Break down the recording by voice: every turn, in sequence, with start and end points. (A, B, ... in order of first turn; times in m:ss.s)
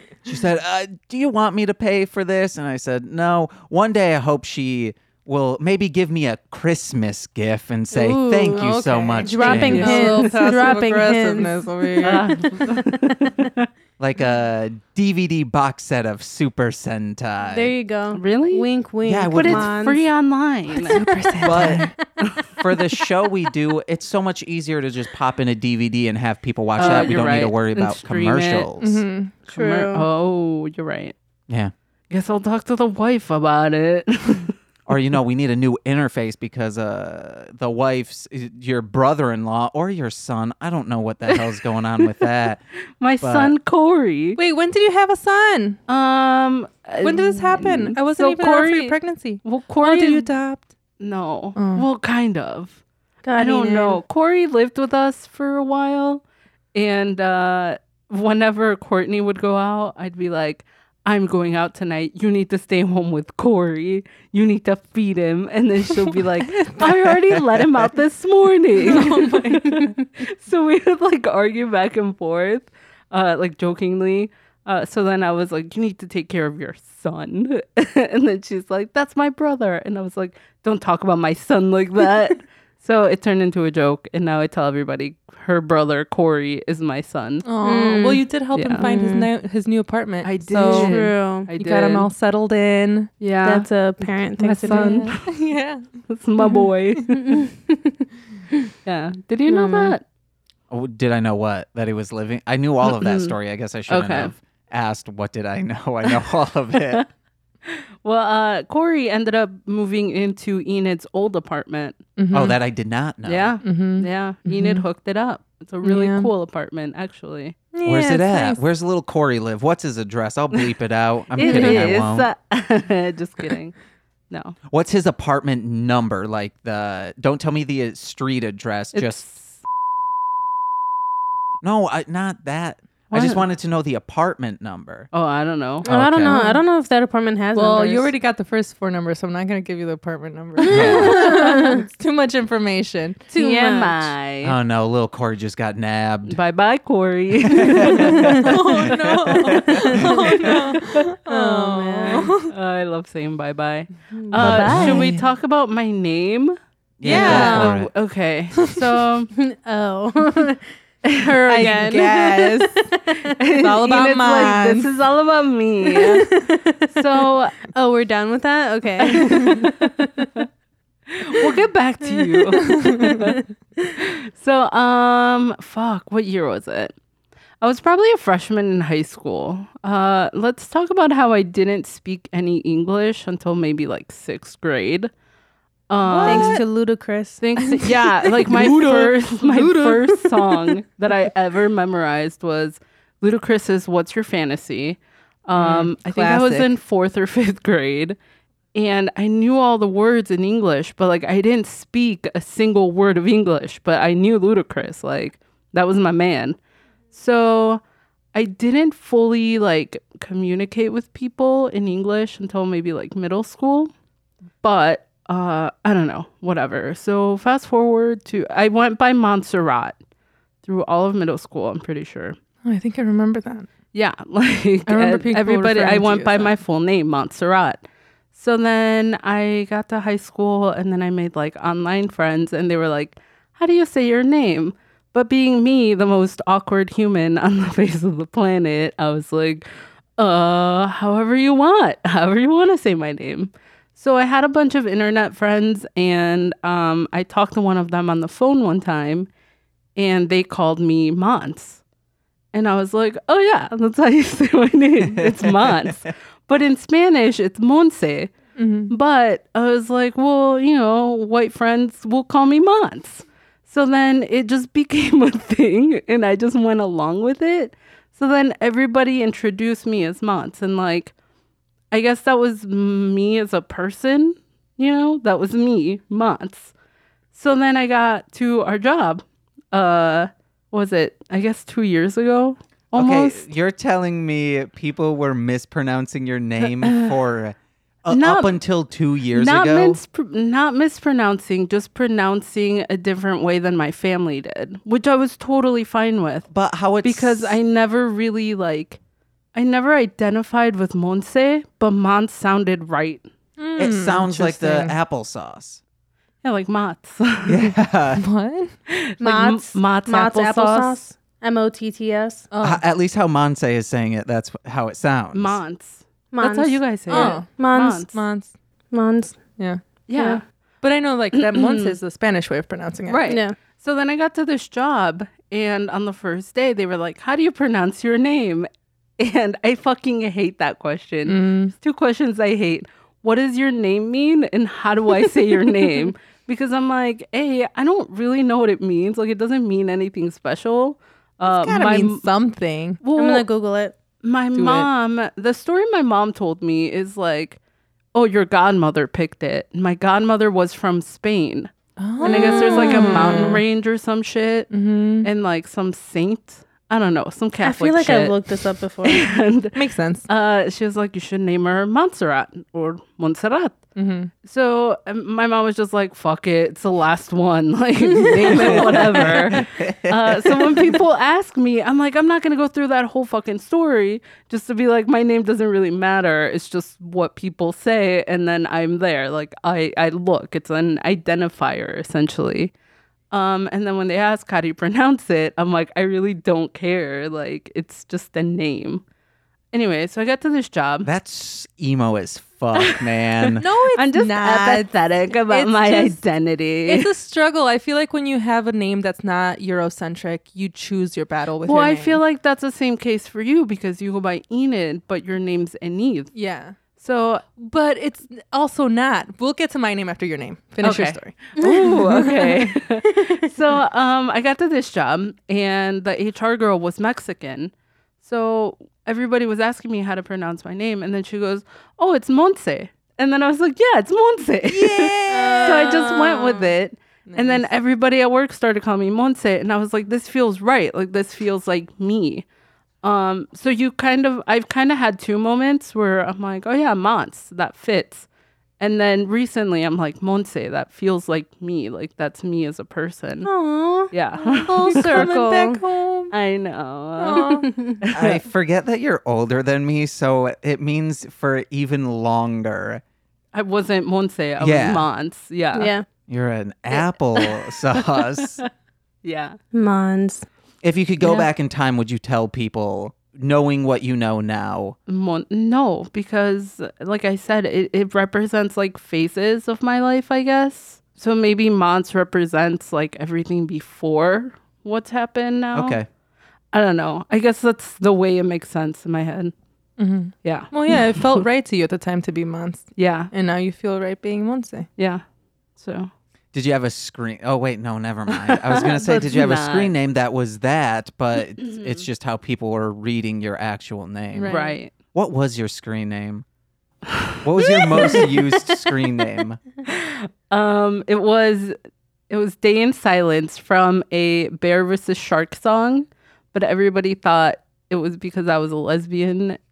0:00.2-0:10.0 A
0:07.9-0:08.6 B
0:08.5-0:12.6 C
0:09.2-0:12.6 B
0:09.4-0:10.8 D
0:12.0-0:13.7 D
0:14.0-0:17.7 A
0:17.5-0:20.0 B
0:18.1-0:18.7 D
0:19.0-0:19.7 A
0:19.3-0:22.6 D
0:20.9-0:21.9 C
0:21.4-0:21.9 A
0:22.6-0:29.0 A
0:26.8-0:28.7 D
0:28.8-0:29.3 C
0:29.5-0:31.1 D
0:29.5-0:30.1 B
0:32.1-0:34.5 D
0:34.9-0:42.6 A
0:41.3-0:42.1 D
0:43.0-0:44.4 D
0:43.2-0:43.5 A
0:44.4-0:45.8 C
0:45.9-0:50.3 D
0:47.0-0:50.7 C
0:51.0-0:52.8 D
0:51.6-0:51.9 C
0:53.2-0:54.0 B
0:53.4-0:56.2 D
0:56.7-1:27.4 D
1:06.8-1:07.9 A
1:08.8-1:10.0 C
1:27.4-1:31.0 C
1:27.6-1:29.3 B
1:28.5-1:28.9 D
1:30.2-1:32.1 D
1:30.5-1:31.5 B
1:31.5-1:33.1 C
1:33.2-1:35.2 D
1:33.4-1:35.1 B
1:34.7-1:35.9 C
1:36.1-1:37.4 D
1:37.2-1:38.0 B
1:38.8-1:40.0 D
1:39.5-1:39.9 B
1:40.7-1:47.0 A
1:42.8-1:43.3 D
1:43.9-1:44.3 D
1:47.7-1:52.0 D
1:52.2-1:52.6 C
1:52.3-1:53.6 A
1:53.2-1:57.6 D
1:53.6-1:54.8 C
1:55.8-1:56.3 C
1:57.7-1:58.6 C
1:57.8-2:02.3 A
2:01.3-2:03.8 D
2:04.3-2:04.6 D
2:04.7-2:09.3 A
2:08.9-2:09.6 D
2:11.6-2:15.1 A
2:13.1-2:13.4 D
2:15.1-2:15.9 D
2:15.8-2:16.4 A
2:15.8-2:18.1 B
2:16.2-2:16.6 C
2:17.6-2:23.2 C
2:20.7-2:21.3 A
2:20.7-2:21.8 B
2:23.3-2:24.1 B
2:23.3-2:24.6 D
2:24.4-2:26.4 A
2:26.3-2:31.0 D
2:27.5-2:30.0 A
2:28.2-2:32.5 C
2:31.3-2:32.3 B
2:32.4-2:39.3 D
2:34.2-2:35.1 B
2:34.4-2:35.2 A
2:37.0-2:37.9 A
2:37.0-2:37.8 C
2:37.2-2:37.5 B
2:39.3-2:40.6 B
2:41.1-2:42.1 D
2:41.2-2:43.2 B
2:41.5-2:42.9 C
2:43.3-2:46.3 D
2:43.6-2:44.9 C
2:45.9-2:46.9 B
2:46.9-2:47.6 D
2:47.6-2:50.3 B
2:49.2-2:49.8 D
2:51.1-2:53.4 D
2:52.7-2:53.9 B
2:53.9-2:56.9 D
2:57.6-3:05.1 D
3:05.9-3:06.6 D
3:06.0-3:06.6 C
3:06.2-3:07.4 B
3:07.4-3:18.2 D
3:07.6-3:10.7 C
3:15.6-3:16.7 C
3:18.7-3:26.6 D
3:27.1-3:27.8 D
3:28.3-3:33.9 D
3:34.6-3:40.0 D
3:40.6-3:42.4 D
3:42.6-3:43.7 C
3:43.9-3:59.7 D
3:44.9-3:46.5 C
4:00.2-4:09.3 D
4:10.0-4:11.8 D
4:12.5-4:18.3 D
4:15.1-4:16.1 A
4:18.6-4:18.9 C
4:18.9-4:31.1 D
4:31.9-4:36.7 D
4:37.3-4:43.5 D
4:42.9-4:50.0 A
4:46.6-4:47.2 D
4:48.1-4:48.6 D
4:49.3-4:56.5 D
4:56.5-4:57.6 A
4:57.0-4:59.0 D
4:59.5-5:03.3 D
5:03.6-5:04.9 C
5:03.8-5:05.8 A
5:06.4-5:07.7 D
5:07.4-5:08.2 A
5:08.2-5:08.7 C
5:08.9-5:11.0 D
5:09.2-5:12.5 B
5:12.5-5:12.8 C
5:12.6-5:15.6 A
5:15.3-5:18.2 D
5:16.3-5:18.1 B
5:17.1-5:17.5 C
5:18.1-5:18.5 C
5:18.9-5:19.4 B
5:20.1-5:20.4 D
5:20.1-5:20.4 B
5:20.8-5:23.3 C
5:21.5-5:21.9 D
5:23.1-5:42.3 D
5:23.3-5:23.6 B
5:31.3-5:31.7 C
5:41.4-5:43.0 C
5:43.0-5:43.4 D
5:43.2-5:43.9 B
5:44.2-5:47.6 D
5:44.6-5:44.9 C
5:48.1-5:54.7 D
5:52.0-5:53.6 C
5:52.2-5:53.6 B
5:54.7-5:55.3 C
5:55.2-5:58.4 D
5:57.6-5:59.4 B
5:59.0-6:03.8 D
5:59.7-6:00.3 C
6:04.0-6:04.3 C
6:04.4-6:22.7 D
6:08.5-6:11.0 A
6:23.3-6:29.0 D
6:29.7-6:31.1 D
6:31.0-6:33.6 A
6:32.8-6:37.1 D
6:33.6-6:34.9 C
6:35.5-6:36.2 C
6:36.8-6:42.2 C
6:41.6-6:46.3 D
6:46.3-6:46.8 C
6:47.0-6:47.4 D
6:47.6-6:51.9 C
6:50.8-7:12.4 D
6:51.6-6:52.2 B
7:04.7-7:06.7 C
7:05.3-7:06.1 B
7:07.3-7:07.7 C
7:13.0-7:18.3 D
7:18.8-7:23.5 D
7:23.4-7:24.1 B
7:24.1-7:25.3 D
7:24.4-7:26.3 C
7:24.8-7:25.8 B
7:26.3-7:28.4 D
7:27.2-7:27.7 C
7:27.3-7:28.0 B
7:28.1-7:33.0 A
7:33.5-7:35.9 D
7:34.6-7:35.0 A
7:35.7-7:36.0 B
7:36.3-7:38.6 A
7:37.0-7:37.7 D
7:38.4-7:38.7 D
7:39.2-7:39.6 D
7:39.7-7:40.4 B
7:40.8-7:45.0 A
7:45.1-7:56.0 D
7:55.7-7:56.1 A
7:56.7-7:59.5 D
8:00.0-8:04.9 C
8:00.4-8:01.4 D
8:03.0-8:03.3 D
8:05.0-8:05.2 D
8:05.8-8:06.1 D
8:06.5-8:14.5 A
8:08.3-8:09.9 D
8:11.6-8:12.0 D
8:14.3-8:14.8 C
8:14.5-8:14.9 D
8:15.1-8:16.4 A
8:17.1-8:18.8 D
8:17.4-8:19.6 A
8:19.9-8:21.8 D
8:22.3-8:29.6 D